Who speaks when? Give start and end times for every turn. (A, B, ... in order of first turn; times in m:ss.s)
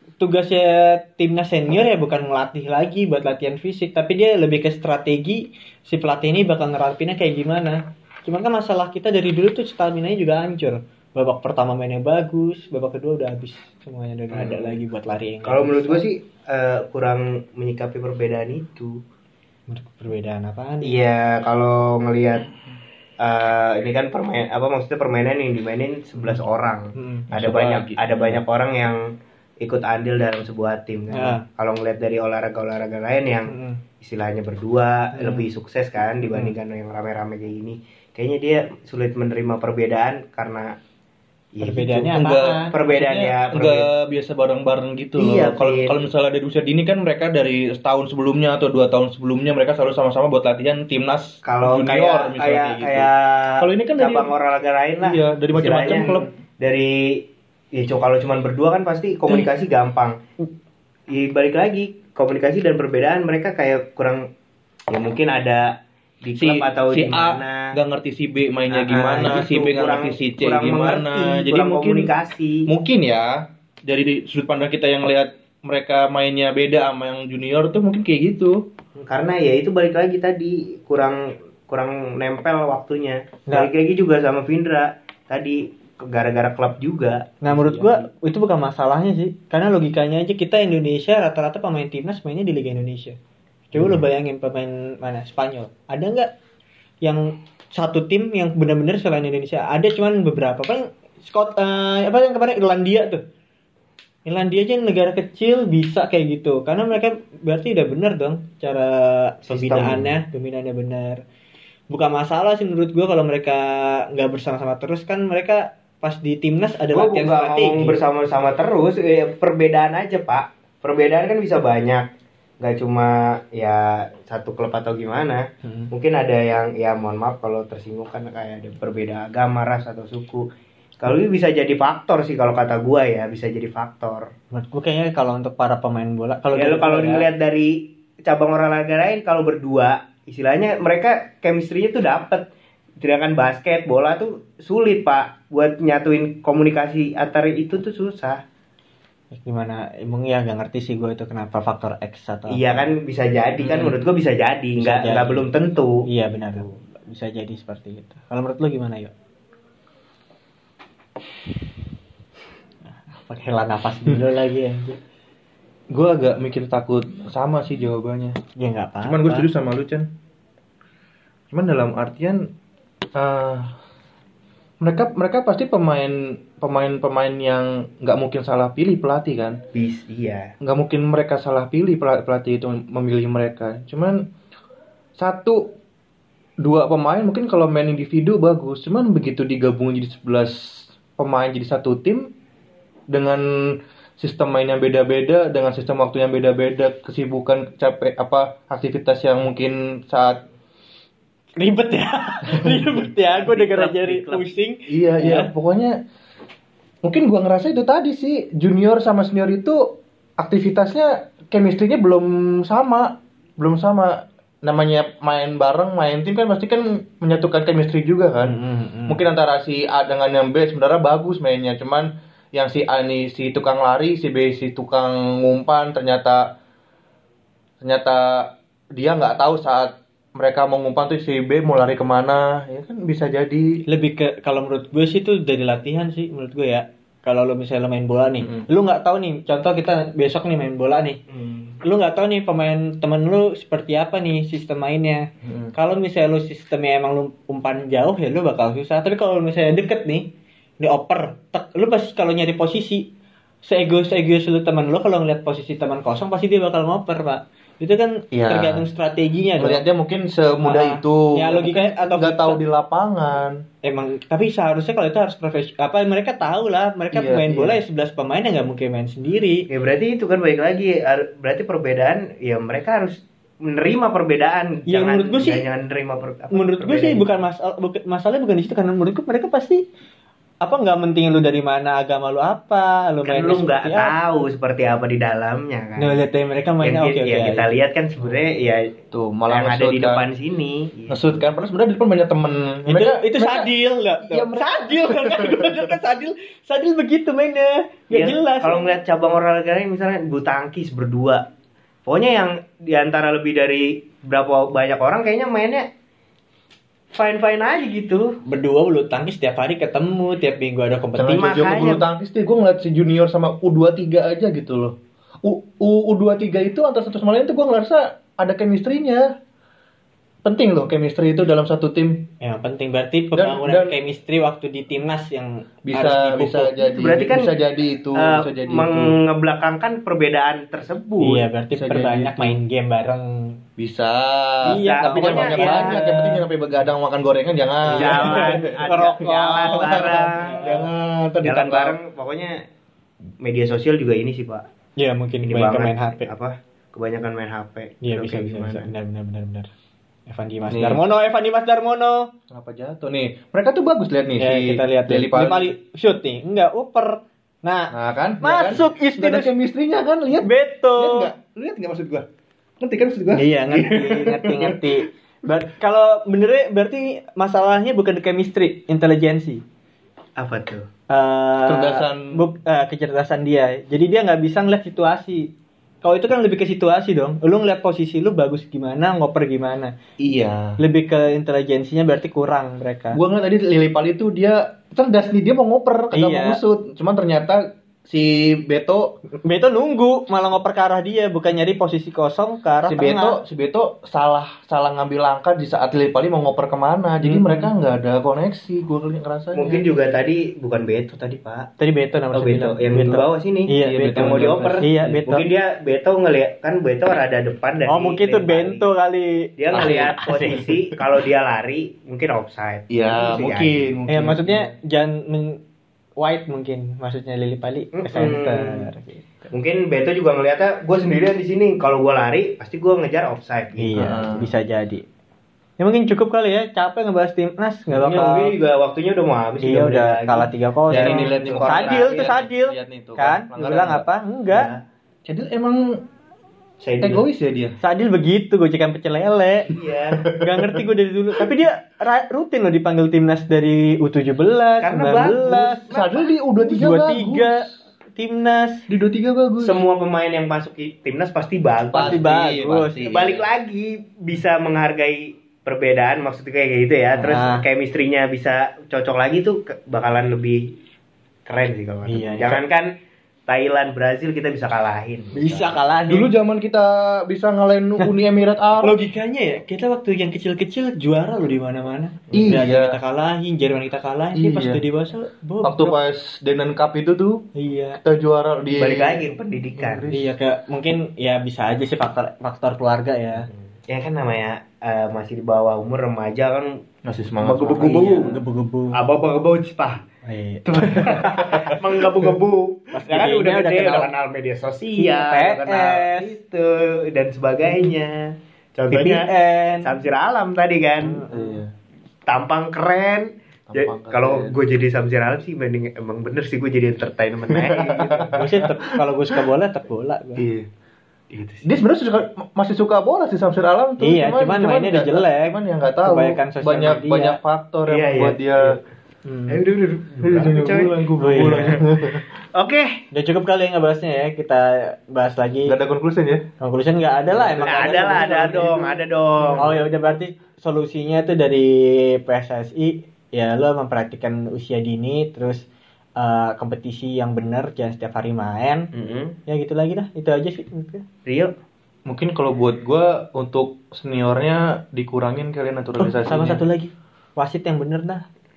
0:00.2-0:16.0 A
0:14.3-0:14.8 B
0:15.4-0:19.0 B
0:19.7-0:21.0 A
0:20.8-0:22.5 B
0:23.2-0:29.0 B
0:26.9-0:27.3 A
0:27.3-0:28.4 C
0:29.6-0:40.8 B
0:31.1-0:31.4 A
0:33.5-0:33.8 A
0:35.1-0:35.5 A
0:41.5-0:42.2 B
0:41.6-0:42.8 A
0:42.1-0:54.3 C
0:42.7-0:43.9 B
0:45.2-0:46.0 B
0:51.4-1:00.2 B
0:55.0-0:56.3 C
1:01.1-1:04.2 B
1:04.9-1:05.7 B
1:06.2-1:07.7 B
1:06.3-1:12.1 C
1:08.7-1:12.7 B
1:12.7-1:18.6 C
1:19.0-1:27.9 B
1:27.4-1:33.2 A
1:27.5-1:27.8 C
1:33.7-1:36.3 A
1:37.0-1:43.2 A
1:44.2-1:51.2 A
1:49.5-1:50.1 B
1:51.9-1:58.0 A
1:56.9-2:02.1 B
2:02.6-2:10.5 B
2:05.6-2:05.9 A
2:11.0-2:14.3 B
2:14.5-2:17.3 A
2:16.5-2:22.5 B
2:23.0-2:28.4 B
2:29.3-2:32.9 A
2:32.5-2:36.0 B
2:33.6-2:34.0 C
2:34.8-2:35.5 A
2:36.0-2:39.1 A
2:43.1-2:45.0 A
2:45.9-2:48.4 C
2:48.6-2:49.5 A
2:49.0-2:50.1 C
2:51.5-2:52.5 C
2:53.1-2:53.7 C
2:54.8-2:59.6 C
2:59.7-3:00.5 B
3:00.6-3:04.3 C
3:05.2-3:05.7 C
3:06.6-3:12.3 C
3:13.1-3:20.4 C
3:21.6-3:25.5 A
3:23.2-3:24.4 B
3:24.9-3:26.0 C
3:27.0-3:38.6 C
3:38.4-3:39.2 A
3:39.1-3:46.5 C
3:47.8-3:53.8 C
3:53.9-4:01.2 A
3:58.4-3:58.7 C
4:01.3-4:01.8 B
4:01.8-4:13.1 A
4:05.4-4:05.7 C
4:13.6-4:19.8 A
4:18.3-4:18.8 C
4:19.6-4:23.6 C
4:20.6-4:22.6 A
4:23.8-4:29.7 A
4:27.1-4:27.8 C
4:29.7-4:37.3 B
4:34.9-4:35.6 A
4:36.5-4:39.8 A
4:40.6-4:44.1 A
4:43.2-4:46.2 B
4:46.0-4:47.7 A
4:46.8-4:48.9 B
4:49.1-4:50.2 C
4:49.5-4:51.4 B
4:51.1-4:53.7 C
4:52.9-4:58.8 A
4:54.2-4:55.9 C
4:58.1-5:01.4 B
5:02.0-5:05.9 B
5:07.1-5:08.4 B
5:08.4-5:11.7 A
5:11.2-5:19.3 C
5:11.3-5:12.0 B
5:20.4-5:22.3 C
5:22.4-5:26.7 A
5:23.3-5:24.0 C
5:25.9-5:29.2 C
5:26.8-5:27.5 B
5:28.1-5:31.4 B
5:31.2-5:33.6 A
5:31.7-5:32.6 C
5:33.8-5:38.8 C
5:34.6-5:36.1 A
5:34.6-5:36.4 B
5:37.9-5:40.8 A
5:37.9-5:40.8 B
5:39.6-5:42.0 C
5:41.4-5:42.6 B
5:43.4-5:44.6 B
5:45.0-5:46.3 A
5:45.4-5:48.9 B
5:48.0-5:49.7 A
5:50.3-5:52.3 A
5:50.7-5:51.0 C
5:52.5-5:55.7 C
5:54.4-5:59.5 A
5:57.9-6:02.3 C
6:00.4-6:01.3 A
6:02.8-6:04.9 C
6:03.3-6:09.6 A
6:10.4-6:10.9 B
6:11.1-6:15.5 A
6:11.6-6:12.4 C
6:16.0-6:19.9 A
6:20.2-6:20.8 C
6:20.8-6:23.2 A
6:23.1-6:29.1 C
6:26.1-6:26.6 A
6:29.4-6:33.4 A
6:32.9-6:39.8 C
6:37.2-6:37.7 A
6:39.5-6:41.7 B
6:41.8-6:45.4 A
6:42.3-6:48.8 B
6:43.8-6:45.2 C
6:47.9-6:50.6 A
6:49.6-6:53.9 B
6:49.7-6:50.7 C
6:52.9-6:54.7 C
6:54.1-6:55.6 A
6:56.2-6:59.5 A
6:57.9-6:58.8 B
6:59.5-7:04.5 B
7:03.8-7:05.0 A
7:04.0-7:04.4 C
7:05.8-7:08.5 A
7:08.0-7:12.3 B
7:09.6-7:14.7 A
7:10.9-7:14.0 C
7:14.5-7:14.8 B
7:15.2-7:16.0 C
7:16.8-7:17.2 B
7:17.0-7:17.8 C
7:17.8-7:19.7 A
7:19.7-7:20.3 B
7:20.2-7:20.8 C
7:20.3-7:25.8 A
7:24.8-7:26.3 B
7:25.9-7:27.7 C
7:26.6-7:28.8 A
7:28.9-7:29.8 C
7:29.6-7:32.3 B
7:31.9-7:33.5 C
7:32.0-7:33.1 A
7:33.0-7:40.7 B
7:37.2-7:37.6 A
7:41.4-7:42.9 B
7:42.1-7:42.6 A
7:43.5-7:45.9 B
7:45.3-7:46.3 A
7:46.1-7:49.0 C
7:48.8-7:55.9 A
7:52.3-7:53.0 C
7:54.3-7:54.8 C
7:55.6-7:57.4 C
7:57.5-7:58.0 A
7:58.0-7:59.2 C
7:58.8-8:00.1 B
7:59.7-8:00.4 C
8:00.1-8:03.5 A
8:03.5-8:06.8 B
8:07.0-8:08.3 C
8:07.4-8:08.4 B
8:07.7-8:09.0 A
8:08.9-8:10.0 B
8:10.2-8:11.8 A
8:10.7-8:21.2 B
8:12.9-8:14.1 A
8:14.9-8:16.3 A
8:18.9-8:19.9 A
8:21.0-8:21.6 A
8:21.3-8:21.7 C
8:22.3-8:28.4 B
8:23.7-8:24.6 C
8:27.5-8:29.0 C
8:28.4-8:30.4 A
8:30.4-8:30.7 C
8:31.3-8:31.7 B
8:31.6-8:38.8 C
8:34.0-8:37.4 A
8:37.9-8:38.8 B
8:39.2-8:39.6 A
8:39.5-8:41.8 B
8:40.2-8:42.2 C
8:41.2-8:41.8 A
8:42.5-8:43.0 B
8:43.1-8:45.8 A
8:45.6-8:46.4 C
8:46.6-8:49.0 A
8:47.3-8:49.8 B
8:47.6-8:48.7 C
8:49.6-8:55.6 A
8:56.2-8:58.9 A
8:58.9-8:59.4 B
8:59.5-9:01.0 A
9:01.2-9:01.5 B
9:02.1-9:06.6 C
9:06.0-9:08.2 A